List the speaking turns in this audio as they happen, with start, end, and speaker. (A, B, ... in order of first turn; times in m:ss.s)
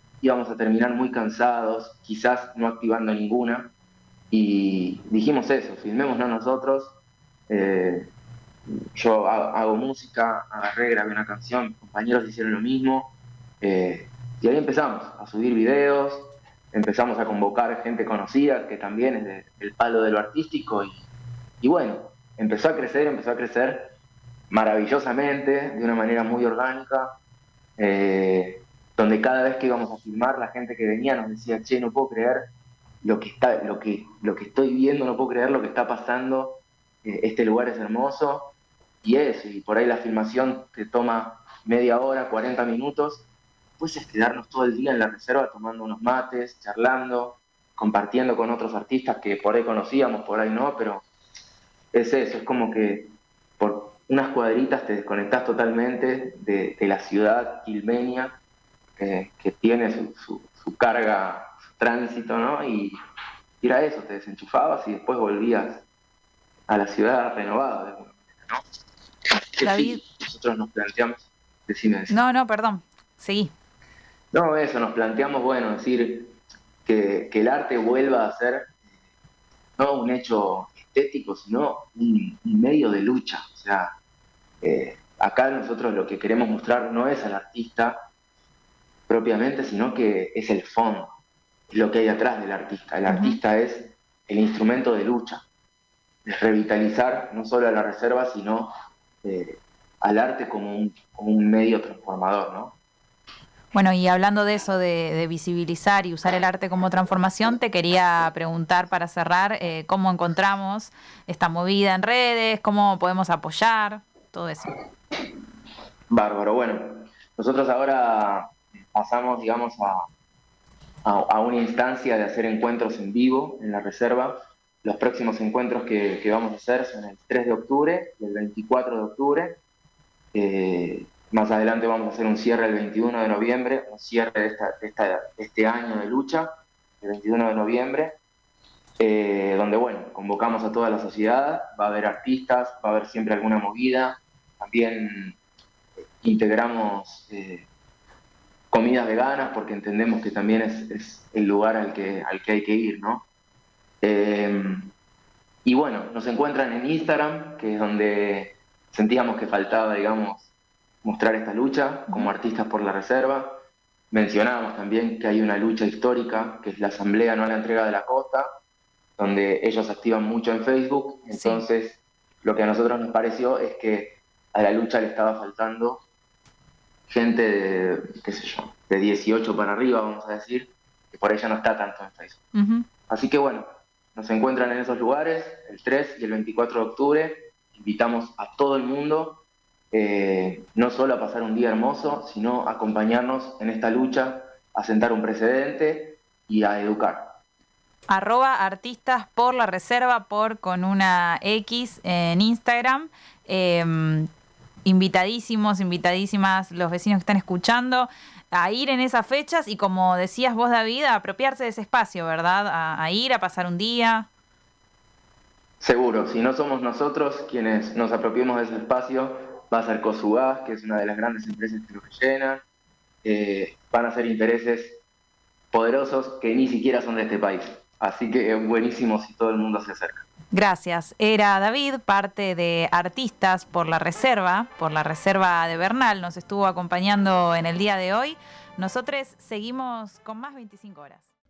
0:00.2-0:03.7 A
0:04.3-0:07.0 A
0:07.5-0:08.1 A
0:08.9-0:21.0 A
0:21.6-0:23.9 A
0:24.5-0:27.1 A
0:27.8-0:32.5 A
0:33.0-0:43.3 A
0:43.8-0:51.0 A
0:51.9-0:58.4 A
0:59.0-1:03.0 A
1:03.6-1:05.8 A
1:06.7-1:08.6 A
1:09.5-1:12.2 A
1:09.6-1:10.0 B
1:12.1-1:13.5 B
1:14.3-1:16.3 A
1:16.8-1:18.7 A
1:19.8-1:23.9 A
1:24.6-1:28.0 A
1:29.1-1:31.1 A
1:31.7-1:35.4 A
1:33.1-1:33.4 B
1:36.2-1:38.7 A
1:39.2-1:42.8 A
1:43.7-1:54.8 B
1:56.1-2:00.0 A
2:01.0-2:09.6 A
2:10.3-2:16.5 A
2:17.0-2:18.2 A
2:19.0-2:25.4 A
2:26.2-2:27.7 A
2:28.7-2:33.2 A
2:34.0-2:34.9 A
2:35.6-2:40.5 A
2:41.0-2:43.5 A
2:44.1-2:48.4 A
2:49.2-2:56.0 A
2:51.3-2:51.6 B
2:57.1-3:02.4 A
3:02.5-3:02.9 B
3:03.1-3:17.4 A
3:18.1-3:24.3 B
3:24.8-3:34.3 B
3:35.8-3:42.6 A
3:43.2-3:45.0 A
3:45.7-3:50.2 A
3:50.5-4:01.3 B